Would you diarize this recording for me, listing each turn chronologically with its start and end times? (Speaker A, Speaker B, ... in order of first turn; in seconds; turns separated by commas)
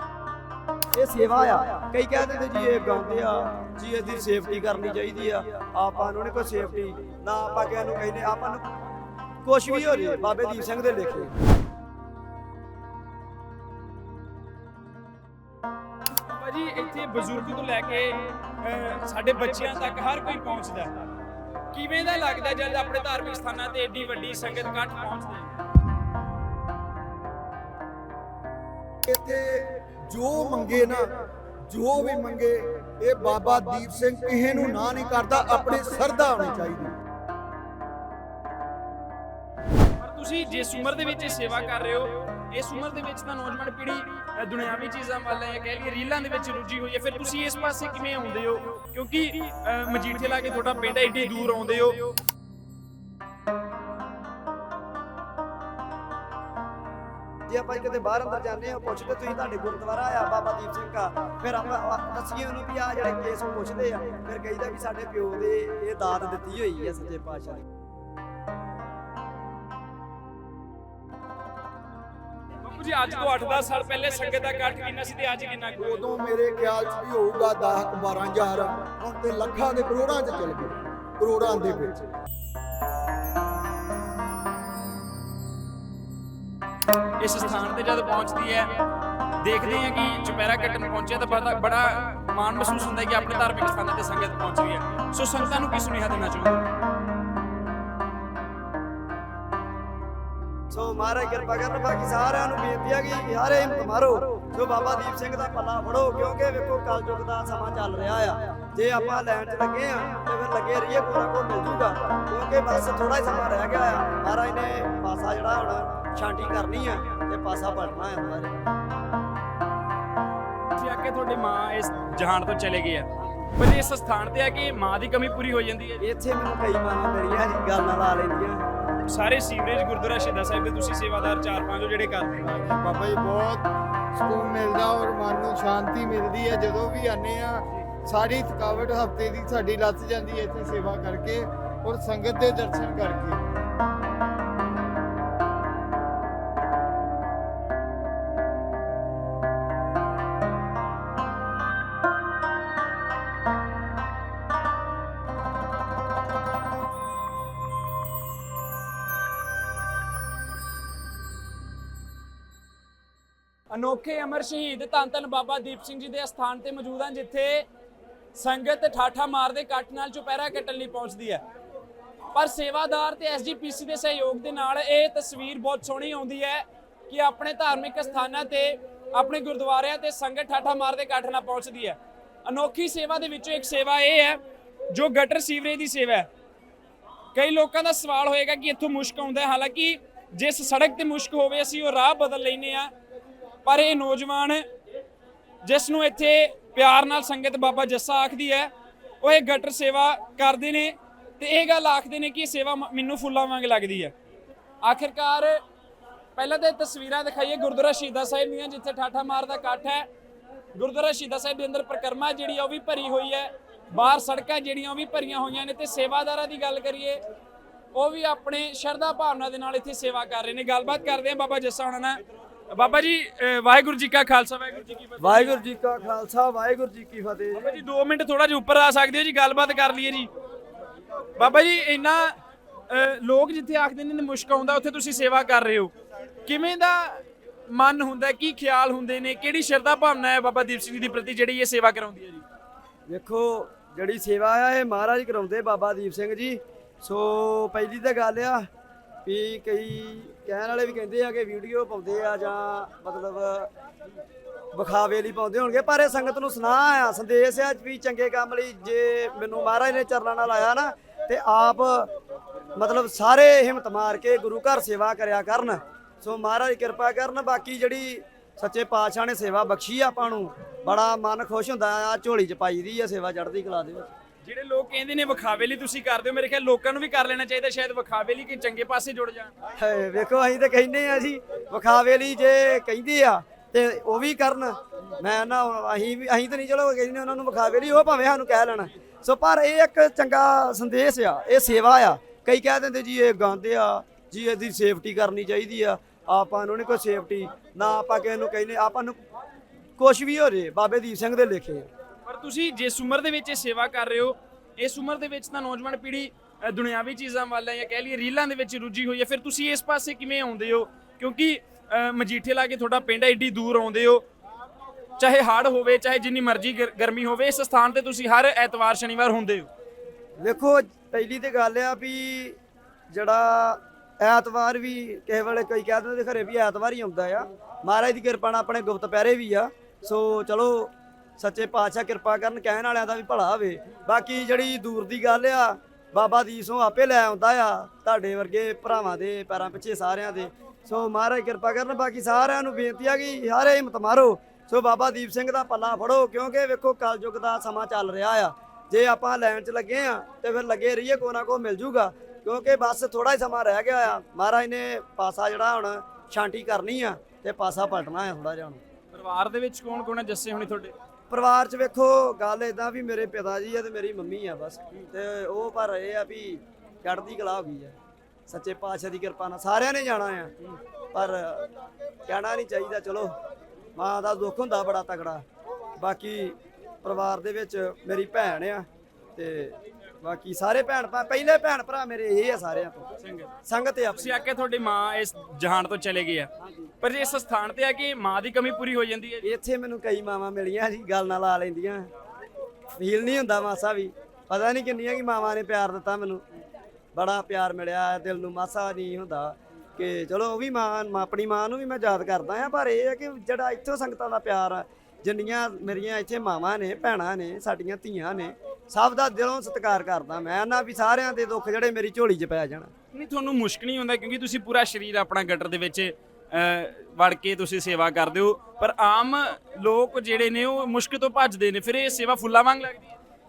Speaker A: 0.9-8.6, Speaker A: 9.4-11.3, Speaker B: 16.3-20.9, Speaker B: 21.7-25.5, Speaker C: 29.0-36.9, Speaker B: 40.0-52.1, Speaker A: 57.5-67.6, Speaker B: 72.6-76.1, Speaker C: 75.8-82.0, Speaker B: 87.2-88.8, Speaker B: 89.4-96.7, Speaker A: 100.7-118.7, Speaker B: 120.7-126.0, Speaker A: 126.0-128.6, Speaker B: 129.0-132.5, Speaker D: 132.4-143.4, Speaker B: 163.7-167.6, Speaker B: 168.3-171.4, Speaker B: 172.3-186.3, Speaker B: 187.3-192.9, Speaker B: 193.6-194.6, Speaker B: 195.6-204.1, Speaker B: 204.8-205.6, Speaker B: 206.3-210.1, Speaker B: 210.7-217.2, Speaker B: 217.9-225.6, Speaker A: 225.2-227.7, Speaker B: 227.5-230.3, Speaker B: 231.4-232.3, Speaker B: 232.9-235.9, Speaker B: 236.4-242.4, Speaker A: 243.1-248.7, Speaker A: 249.2-253.7, Speaker A: 254.7-262.1, Speaker A: 262.8-274.1, Speaker B: 274.4-279.5, Speaker A: 279.8-299.2, Speaker A: 300.0-301.9, Speaker B: 302.2-314.2, Speaker B: 315.2-319.7, Speaker A: 320.4-322.6, Speaker A: 323.1-358.8, Speaker B: 359.1-360.9, Speaker A: 361.3-367.9, Speaker A: 368.5-370.5, Speaker A: 371.1-371.7, Speaker A: 372.2-373.3, Speaker A: 373.9-375.4, Speaker A: 376.0-383.1, Speaker B: 383.2-383.5, Speaker A: 383.6-384.4, Speaker B: 384.1-386.5, Speaker B: 387.0-389.5, Speaker A: 389.4-392.1, Speaker A: 392.9-396.4, Speaker A: 397.1-412.9, Speaker B: 413.1-423.1